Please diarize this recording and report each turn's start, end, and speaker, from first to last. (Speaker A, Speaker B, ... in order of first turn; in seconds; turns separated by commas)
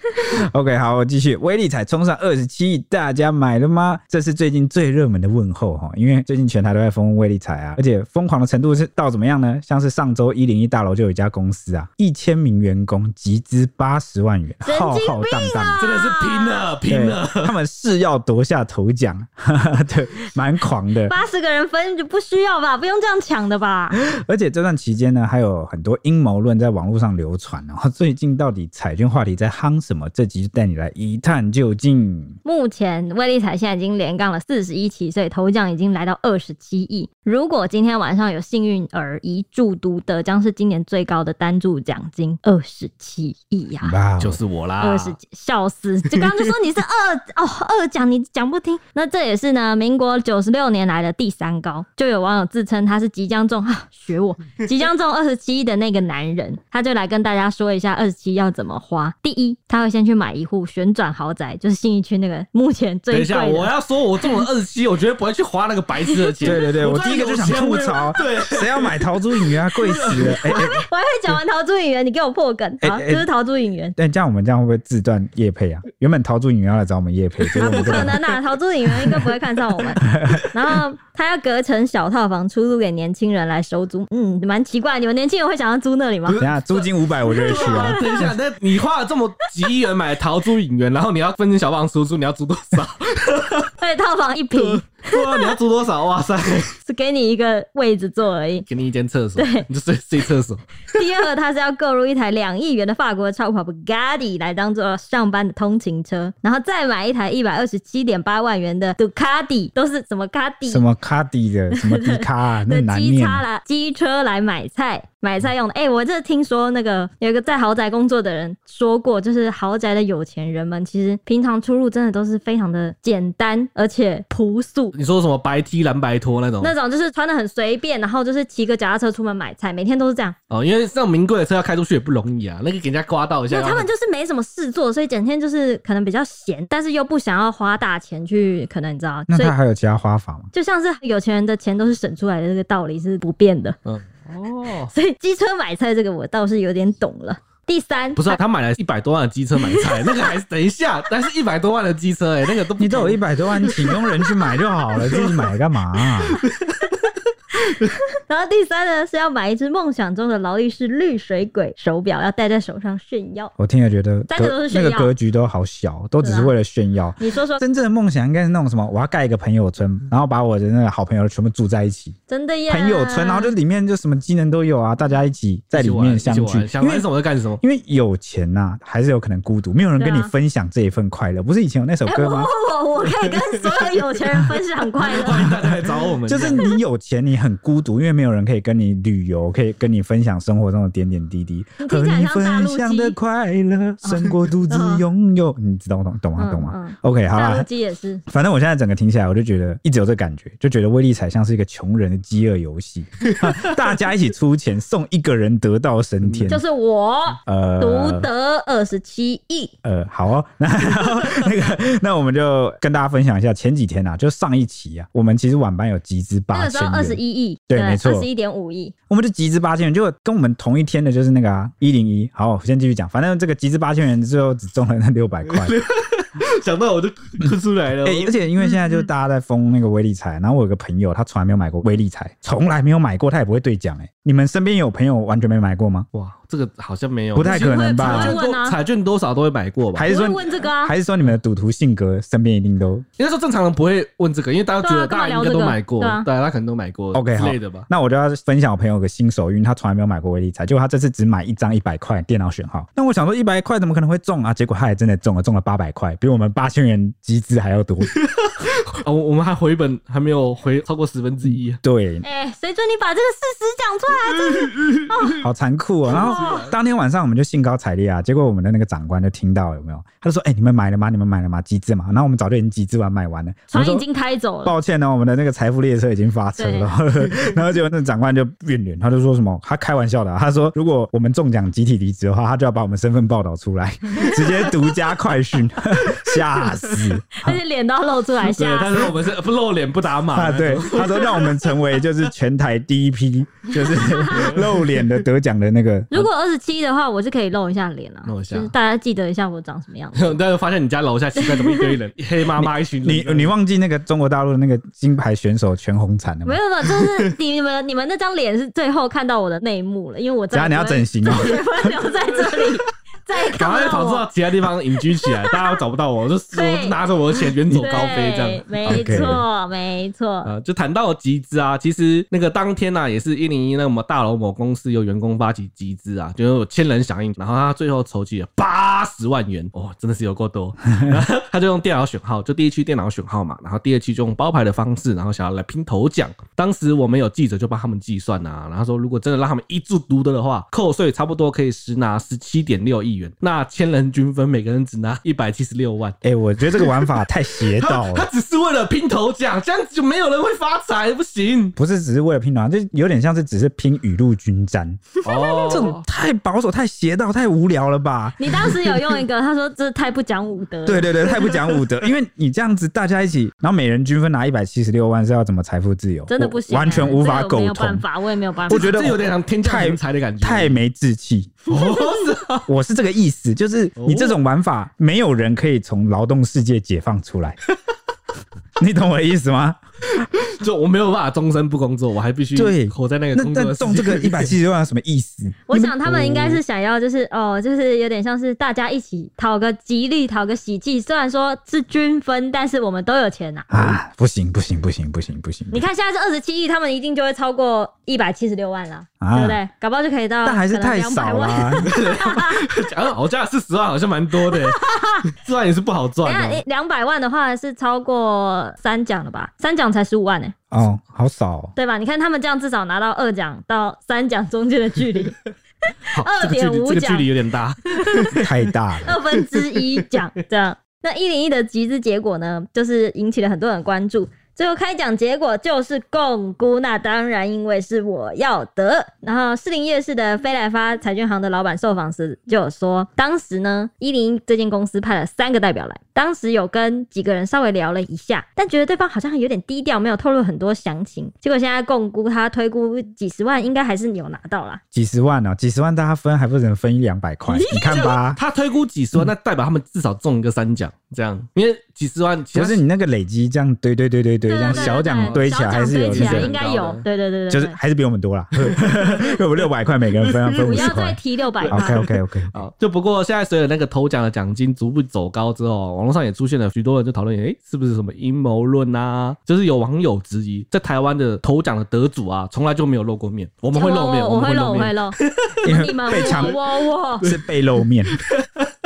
Speaker A: 0.3-15.8, Speaker B: 14.6-16.6, Speaker C: 15.8-17.5, Speaker A: 16.9-21.1, Speaker B: 21.1-24.0, Speaker A: 23.9-32.4, Speaker B: 32.4-44.0, Speaker A: 43.8-44.4, Speaker C: 44.2-45.2, Speaker B: 44.8-63.7, Speaker C: 63.1-70.5, Speaker A: 66.4-70.8, Speaker B: 70.4-73.9, Speaker A: 72.8-73.3, Speaker A: 74.0-78.2, Speaker C: 77.4-78.2, Speaker B: 77.6-86.4, Speaker A: 80.1-80.4, Speaker C: 86.2-93.7, Speaker A: 86.4-88.3, Speaker B: 87.5-88.3, Speaker B: 93.8-95.5, Speaker C: 94.5-96.7, Speaker B: 96.8-98.7, Speaker C: 98.7-100.8, Speaker B: 99.4-99.7, Speaker B: 100.9-110.8, Speaker A: 110.7-113.4, Speaker B: 111.7-124.9, Speaker C: 124.9-126.7, Speaker B: 126.6-130.3, Speaker C: 130.5-133.9, Speaker B: 133.5-139.5, Speaker A: 139.3-140.5, Speaker B: 140.5-143.8, Speaker C: 143.8-144.9, Speaker B: 144.9-148.4, Speaker C: 148.2-156.9, Speaker A: 152.8-156.4, Speaker B: 157.7-163.5, Speaker A: 163.6-172.2, Speaker B: 164.3-165.1, Speaker B: 166.2-166.5, Speaker B: 167.2-167.6, Speaker B: 172.3-173.5, Speaker A: 172.7-177.1, Speaker C: 175.7-177.6, Speaker A: 177.6-182.5, Speaker B: 180.0-180.3, Speaker B: 182.0-185.5, Speaker C: 183.4-183.9, Speaker C: 185.0-186.6, Speaker A: 185.4-197.7, Speaker B: 191.8-193.2, Speaker B: 194.0-195.0, Speaker B: 196.4-198.2, Speaker A: 198.3-206.6, Speaker B: 206.5-209.7, Speaker A: 207.4-208.3, Speaker A: 209.8-218.3, Speaker B: 216.5-218.9, Speaker A: 219.1-225.7, Speaker C: 225.4-228.8, Speaker A: 228.0-236.1, Speaker C: 236.1-240.1, Speaker A: 237.3-238.4, Speaker B: 237.4-238.8, Speaker A: 239.9-243.0, Speaker B: 240.1-240.9, Speaker C: 243.2-247.9, Speaker B: 244.8-246.3, Speaker A: 247.1-258.1, Speaker C: 258.2-261.8, Speaker A: 261.8-262.2, Speaker B: 262.2-265.4, Speaker A: 265.4-274.0, Speaker B: 266.1-266.7, Speaker C: 266.1-266.7, Speaker B: 273.7-274.7, Speaker A: 274.6-287.6, Speaker B: 276.6-276.9, Speaker B: 287.4-289.1, Speaker C: 288.4-291.6, Speaker A: 290.3-296.1, Speaker B: 293.8-294.6, Speaker C: 294.3-295.0, Speaker B: 296.1-300.4, Speaker C: 298.2-298.7, Speaker C: 300.1-303.5, Speaker B: 301.4-302.0, Speaker A: 302.6-306.6, Speaker B: 306.4-314.3, Speaker C: 307.0-307.3, Speaker A: 310.5-311.9, Speaker C: 313.5-319.3, Speaker B: 316.5-317.0, Speaker A: 317.7-318.0, Speaker B: 317.7-320.5, Speaker A: 318.8-319.4, Speaker C: 320.4-346.1, Speaker A: 346.2-348.3, Speaker C: 346.7-351.7, Speaker A: 351.8-358.7, Speaker C: 355.2-356.0, Speaker B: 358.4-361.1, Speaker A: 360.9-368.0, Speaker C: 361.5-361.8, Speaker B: 366.3-368.9, Speaker A: 368.7-371.6, Speaker C: 368.7-370.8, Speaker C: 371.7-372.6, Speaker A: 372.6-377.6, Speaker C: 374.0-374.4, Speaker A: 378.8-379.8, Speaker C: 380.3-384.5, Speaker A: 382.5-386.6, Speaker B: 385.7-394.0, Speaker A: 393.7-395.8, Speaker B: 395.7-402.6, Speaker A: 399.2-399.6, Speaker A: 400.4-401.9, Speaker C: 401.8-406.6, Speaker B: 404.5-405.2, Speaker B: 406.2-410.6, Speaker A: 410.7-411.7, Speaker B: 411.8-415.4, Speaker B: 415.9-417.3, Speaker C: 416.1-418.5, Speaker A: 418.3-419.2, Speaker B: 419.0-444.8, Speaker C: 419.4-420.0, Speaker A: 444.9-448.4, Speaker B: 447.5-448.1, Speaker C: 447.8-452.8, Speaker A: 452.5-456.5, Speaker B: 454.5-457.8, Speaker C: 454.7-457.0, Speaker A: 457.5-461.2, Speaker C: 458.6-459.3, Speaker C: 460.3-460.9, Speaker B: 460.6-462.0, Speaker C: 461.7-475.2, Speaker A: 461.7-462.6, Speaker B: 473.7-477.2, Speaker A: 475.6-476.6, Speaker C: 476.1-476.6, Speaker A: 477.2-478.1, Speaker C: 478.1-478.7